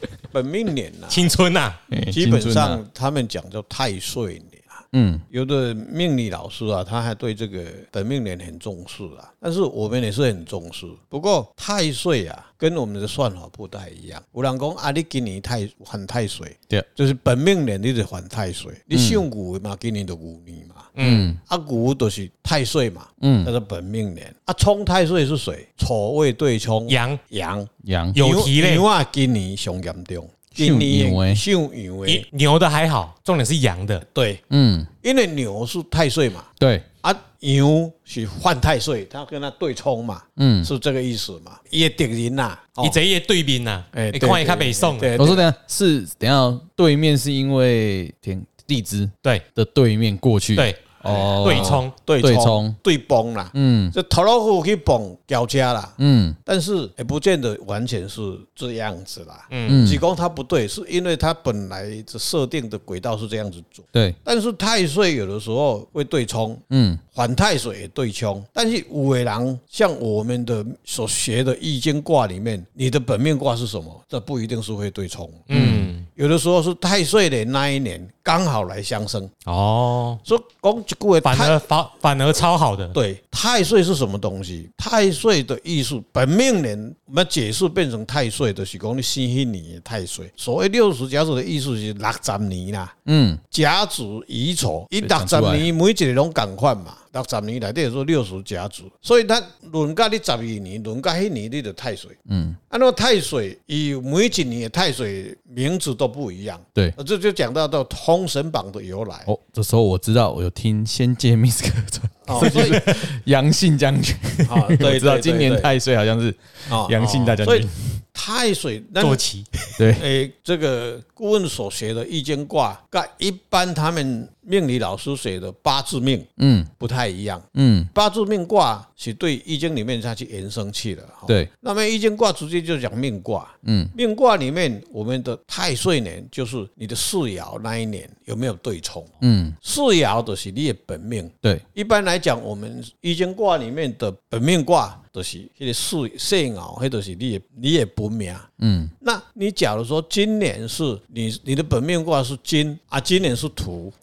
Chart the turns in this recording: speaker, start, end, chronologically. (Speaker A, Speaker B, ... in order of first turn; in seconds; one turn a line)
Speaker A: 0.3-1.4
Speaker B: 1.1-1.8
Speaker C: 1.9-2.8
Speaker A: 2.1-32.2
Speaker C: 4.9-5.2
Speaker C: 18.9-19.2
Speaker B: 20.9-21.3
Speaker C: 21.0-21.4
Speaker C: 23.2-23.5
Speaker B: 26.9-27.2
Speaker C: 27.8-28.2
Speaker B: 28.1-28.8
Speaker C: 30.6-31.4
Speaker B: 32.0-34.0
Speaker A: 34.1-34.4
Speaker C: 34.5-34.9
Speaker A: 35.0-36.5
Speaker C: 36.6-36.9
Speaker A: 37.0-43.0
Speaker C: 40.4-40.7
Speaker B: 42.8-45.1
Speaker A: 43.9-45.4
Speaker C: 45.1-52.8
Speaker B: 50.5-51.9
Speaker A: 51.0-66.6
Speaker C: 53.5-53.9
Speaker C: 56.0-56.4
Speaker B: 59.5-59.9
Speaker C: 59.7-60.0
Speaker C: 66.7-67.0
Speaker A: 67.1-79.3
Speaker B: 75.5-76.1
Speaker C: 75.5-75.9
Speaker B: 79.5-80.2
Speaker A: 80.2-81.6
Speaker B: 81.2-83.0
Speaker A: 82.9-93.0
Speaker C: 93.0-93.4
Speaker A: 93.5-102.2
Speaker C: 95.0-95.7
Speaker C: 102.3-102.6
Speaker A: 102.7-109.3
Speaker C: 109.2-118.0
Speaker A: 112.2-113.1
Speaker A: 114.4-115.7
Speaker A: 116.7-119.2
Speaker B: 119.0-119.5
Speaker C: 119.8-120.0
Speaker A: 119.9-148.5
Speaker C: 126.4-126.7
Speaker C: 127.5-127.9
Speaker C: 133.6-133.9
Speaker C: 139.2-139.6
Speaker C: 148.6-148.9
Speaker A: 149.0-153.9